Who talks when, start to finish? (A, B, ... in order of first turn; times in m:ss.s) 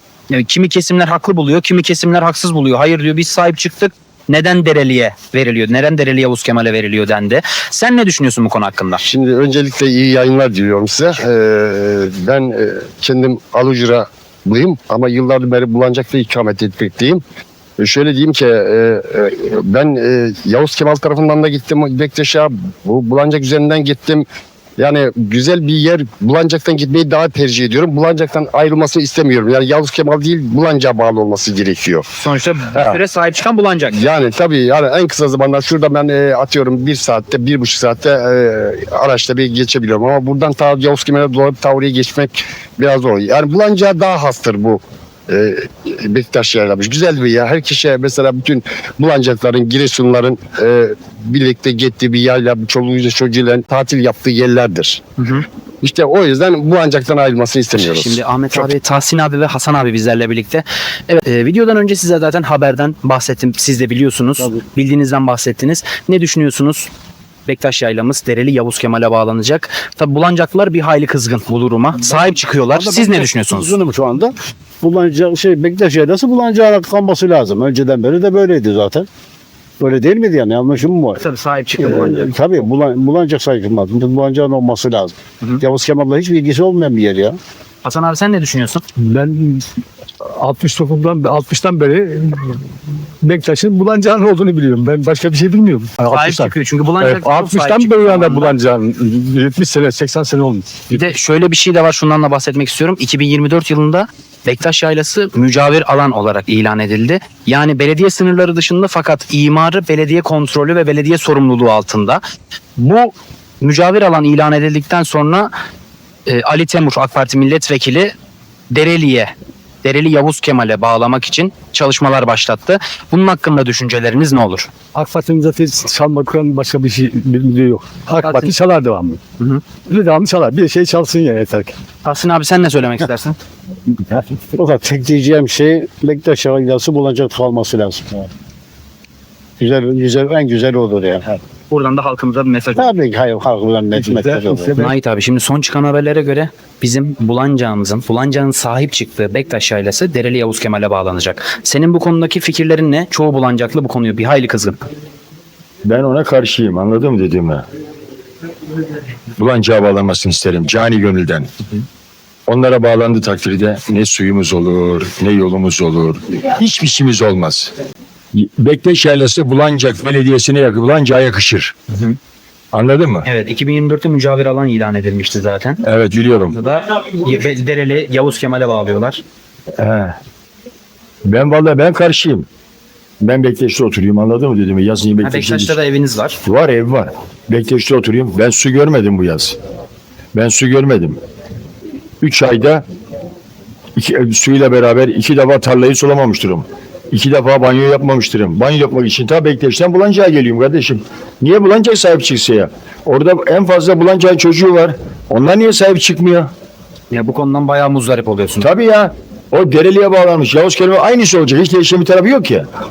0:00.3-0:09.0 A
0:09.0-0:17.2 B
0:17.8-0:24.2 B
0:24.8-0:32.1 B
0:32.2-0:34.0 A
0:32.7-0:33.0 B
0:33.9-0:55.0 B
0:55.2-0:55.4 A
0:55.8-0:58.6 B
0:57.8-1:06.9 A
1:07.4-1:13.8 A
1:12.0-1:19.1 C
1:19.8-1:21.2 C
1:21.2-1:22.4 A
1:21.8-1:27.4 C
1:27.8-1:28.8 A
1:29.0-1:29.6 D
1:30.3-1:41.1 D
1:36.1-1:38.5 A
1:40.9-1:52.2 A
1:52.8-1:55.5 A
1:56.3-1:58.1 A
1:58.7-2:04.7 A
2:04.9-2:09.2 D
2:08.2-2:08.5 A
2:09.8-2:11.7 D
2:12.0-2:13.4 A
2:14.1-2:18.3 C
2:19.6-2:21.4 C
2:21.7-2:22.9 A
2:22.8-2:24.7 C
2:23.9-2:24.9 D
2:24.7-2:34.8 A
2:35.8-2:37.6 E
2:39.4-2:41.5 E
2:42.5-2:47.7 E
2:48.3-2:51.7 E
2:52.7-2:53.3 E
2:53.2-2:55.8 A
2:55.8-2:56.6 E
2:56.5-2:59.2 A
2:59.8-3:00.1 E
3:01.2-3:02.5 E
3:03.2-3:05.8 E
3:05.2-3:06.4 A
3:06.4-3:09.6 E
3:10.3-3:11.2 E
3:12.2-3:12.8 E
3:14.0-3:26.5 E
3:27.1-3:28.7 A
3:28.6-3:32.7 E